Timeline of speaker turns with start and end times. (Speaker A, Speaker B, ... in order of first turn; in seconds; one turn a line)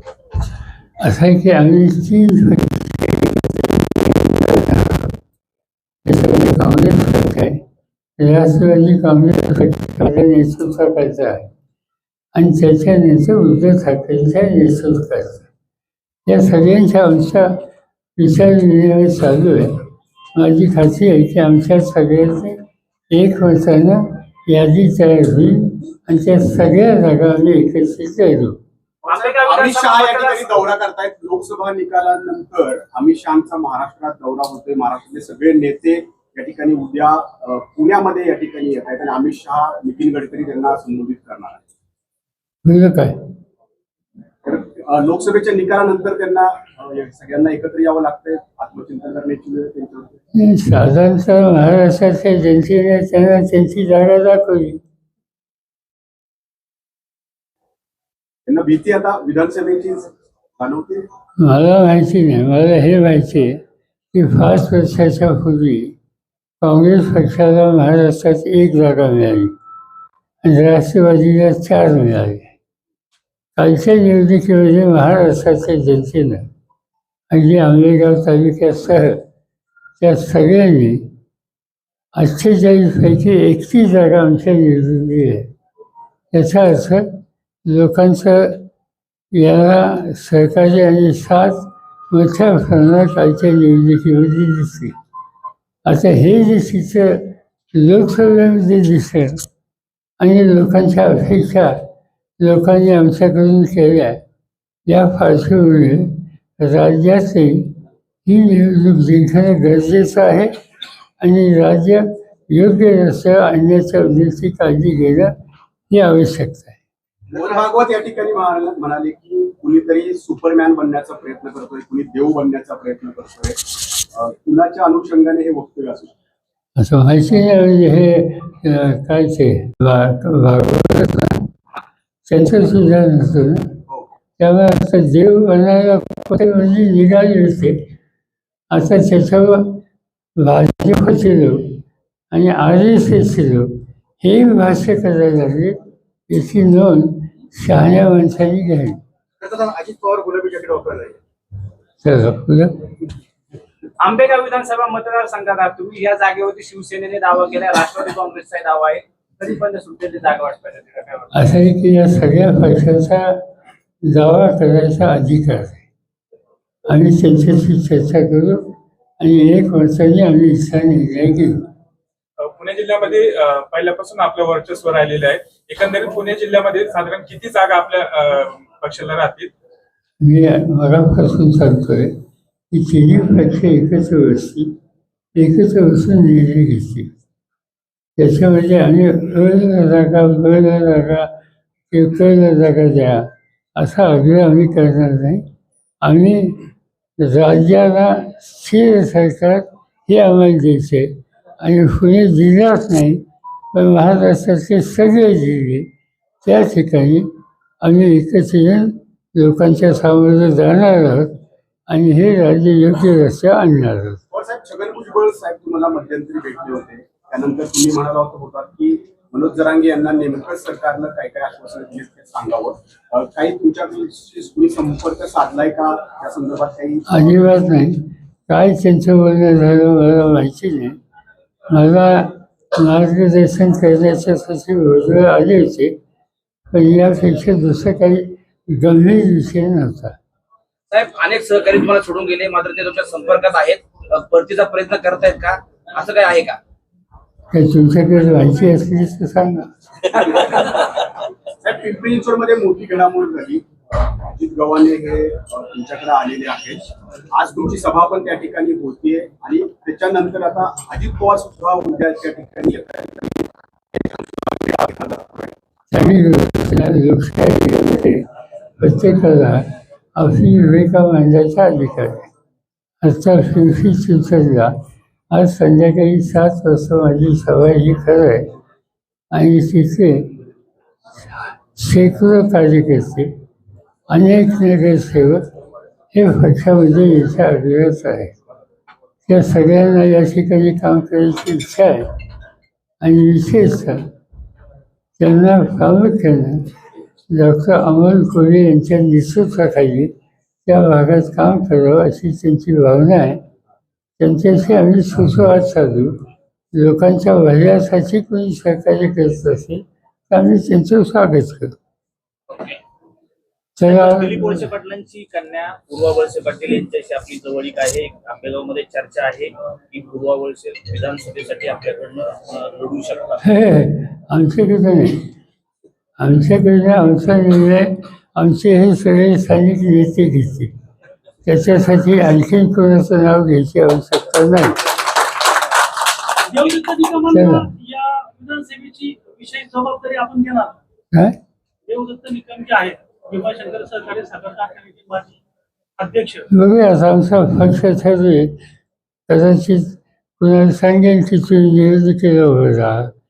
Speaker A: 1.0-5.1
Speaker A: 6.0-7.6
Speaker A: 8.2-11.5
Speaker A: 12.3-15.4
Speaker A: 16.2-17.6
Speaker A: 18.2-19.7
Speaker A: 20.4-22.6
Speaker A: 23.1-28.6
Speaker B: 29.0-41.6
Speaker C: 29.1-30.6
Speaker A: 42.6-43.2
Speaker B: 44.4-50.1
Speaker A: 50.3-54.8
Speaker B: 58.5-60.1
Speaker B: 60.6-61.0
Speaker A: 61.4-63.6
Speaker A: 64.1-65.9
Speaker A: 66.6-69.5
Speaker A: 70.4-72.5
Speaker A: 73.5-76.5
Speaker A: 77.3-79.2
Speaker A: 80.0-81.1
Speaker A: 82.2-85.5
Speaker A: 86.3-88.7
Speaker A: 89.3-94.9
Speaker A: 95.8-99.3
Speaker A: 100.2-101.8
Speaker A: 102.4-104.2
Speaker A: 104.9-107.7
Speaker A: 108.2-110.5
Speaker A: 111.2-115.3
Speaker A: 115.9-116.8
Speaker B: 117.3-123.6
Speaker B: 124.1-126.1
Speaker A: 126.8-131.5
Speaker A: 132.2-133.7
Speaker A: 134.4-137.8
Speaker A: 138.7-139.8
Speaker A: 140.4-143.7
Speaker A: 144.2-145.8
Speaker A: 146.3-149.0
Speaker B: 149.4-151.2
Speaker A: 152.0-152.8
Speaker C: 154.0-161.3
Speaker A: 161.3-163.4
Speaker A: 164.1-165.8
Speaker A: 166.8-171.7
Speaker D: 172.4-179.5
Speaker A: 180.2-182.1
Speaker A: 182.7-184.7
Speaker A: 185.3-187.1
Speaker A: 188.2-191.3
Speaker A: 191.9-195.4
Speaker A: 196.0-196.6
Speaker A: 197.2-203.2
Speaker A: 203.7-205.9
Speaker A: 206.4-207.3
Speaker A: 207.8-211.3
Speaker A: 211.9-214.2
Speaker B: 214.3-227.1
Speaker A: 227.1-230.9
Speaker A: 231.7-235.9
Speaker A: 236.7-240.2
Speaker E: 240.9-246.6
Speaker A: 247.5-249.7
Speaker B: 251.6-265.5
Speaker A: 265.9-268.3
Speaker A: 268.8-272.3
Speaker A: 273.0-274.7
Speaker A: 275.3-278.5
Speaker A: 279.3-280.4
Speaker A: 281.2-283.3
Speaker A: 284.1-285.4
Speaker A: 286.1-288.3
Speaker A: 289.2-292.1
Speaker A: 293.0-294.0
Speaker A: 295.2-296.6
Speaker A: 297.3-300.1
Speaker A: 300.6-303.4
Speaker A: 304.2-306.1
Speaker A: 306.7-311.8
Speaker A: 313.8-314.6
Speaker F: 313.8-323.5
Speaker A: 323.4-325.2
Speaker A: 326.2-330.7
Speaker A: 331.4-334.8
Speaker G: 336.5-340.8
Speaker A: 337.2-337.7
Speaker G: 341.9-345.4
Speaker G: 346.0-346.4
Speaker A: 346.5-348.5
Speaker A: 349.3-353.1